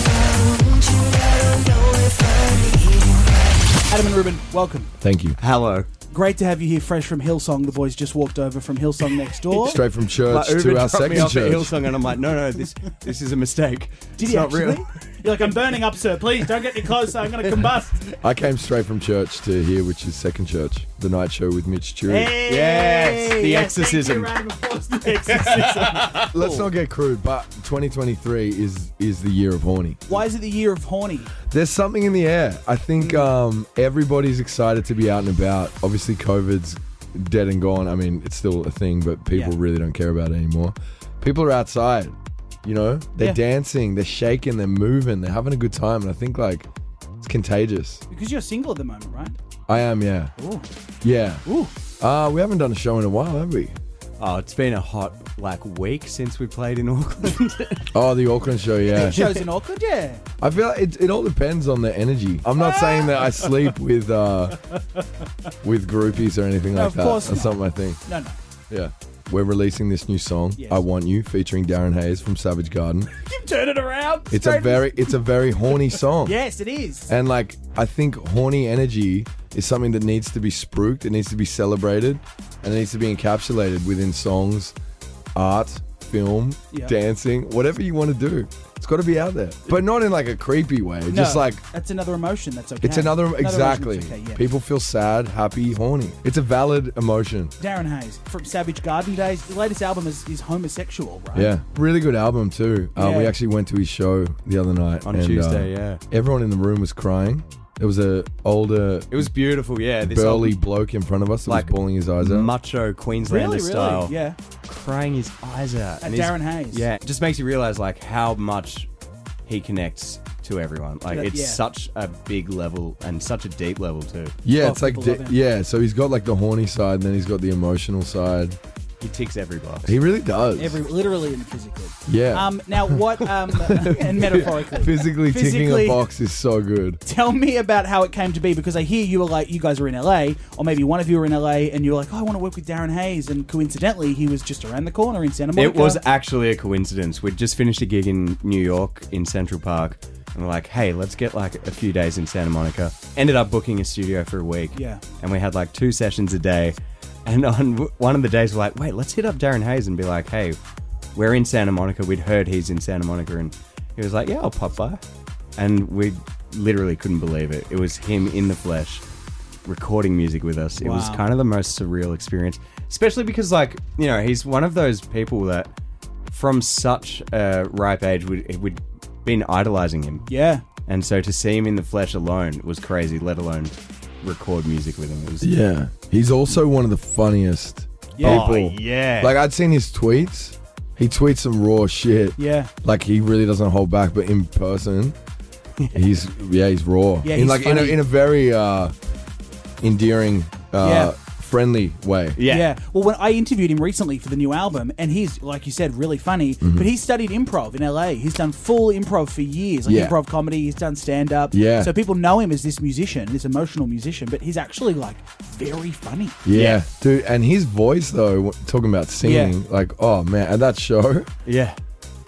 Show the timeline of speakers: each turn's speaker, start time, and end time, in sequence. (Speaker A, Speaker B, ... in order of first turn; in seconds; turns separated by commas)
Speaker A: 1.0-2.9, Speaker B: 3.9-4.9, Speaker C: 5.0-5.4, Speaker A: 5.4-5.9, Speaker B: 6.1-9.8, Speaker C: 9.5-11.7, Speaker A: 10.2-15.7, Speaker B: 14.2-18.1, Speaker A: 16.6-17.3, Speaker C: 18.2-22.3, Speaker B: 22.1-26.7, Speaker A: 22.4-24.3, Speaker A: 25.1-26.4, Speaker C: 26.2-30.2, Speaker B: 30.1-31.3, Speaker C: 31.4-46.7, Speaker B: 39.3-39.5, Speaker C: 47.2-48.0, Speaker B: 48.1-49.4, Speaker C: 49.7-50.3, Speaker B: 50.4-50.7, Speaker C: 51.0-51.4, Speaker B: 51.5-51.7, Speaker C: 52.0-53.7, Speaker A: 54.2-57.9, Speaker C: 57.9-59.3, Speaker B: 58.9-60.2, Speaker A: 59.1-59.4, Speaker C: 60.4-64.6, Speaker B: 62.6-63.7, Speaker C: 65.6-68.0, Speaker B: 66.7-68.4, Speaker C: 68.7-73.1, Speaker B: 70.6-70.8, Speaker B: 73.1-75.1, Speaker C: 74.3-76.3, Speaker B: 75.7-77.1, Speaker C: 77.1-84.7, Speaker C: 85.3-91.6, Speaker B: 91.1-94.4, Speaker C: 92.8-97.5, Speaker B: 97.6-101.5, Speaker C: 101.3-109.3, Speaker B: 103.0-103.3, Speaker A: 105.0-106.0, Speaker A: 109.1-110.6, Speaker C: 110.0-112.5, Speaker A: 111.5-118.9, Speaker B: 113.2-114.4, Speaker B: 116.0-116.9, Speaker A: 119.5-124.4, Speaker B: 121.1-121.6, Speaker C: 124.4-128.6, Speaker B: 124.5-125.3, Speaker A: 129.0-129.9, Speaker C: 129.8-130.8, Speaker B: 130.6-136.0, Speaker C: 132.1-137.0, Speaker B: 137.0-146.0, Speaker A: 145.6-160.6, Speaker B: 154.7-155.0, Speaker A: 161.1-165.0, Speaker A: 165.6-169.0, Speaker A: 169.7-175.7, Speaker B: 170.8-171.2, Speaker A: 176.3-180.2, Speaker B: 180.3-180.6, Speaker A: 180.9-185.5, Speaker C: 185.4-195.2, Speaker B: 188.2-188.5, Speaker A: 188.2-189.3, Speaker B: 192.4-192.7, Speaker C: 195.9-198.9, Speaker B: 197.2-198.0, Speaker C: 199.8-202.4, Speaker B: 200.8-201.1, Speaker A: 202.3-202.7, Speaker B: 202.5-216.4, Speaker C: 206.6-206.9, Speaker C: 209.9-210.1, Speaker C: 211.5-211.9, Speaker C: 216.4-221.3, Speaker A: 216.5-216.8, Speaker B: 219.2-219.6, Speaker A: 221.4-221.8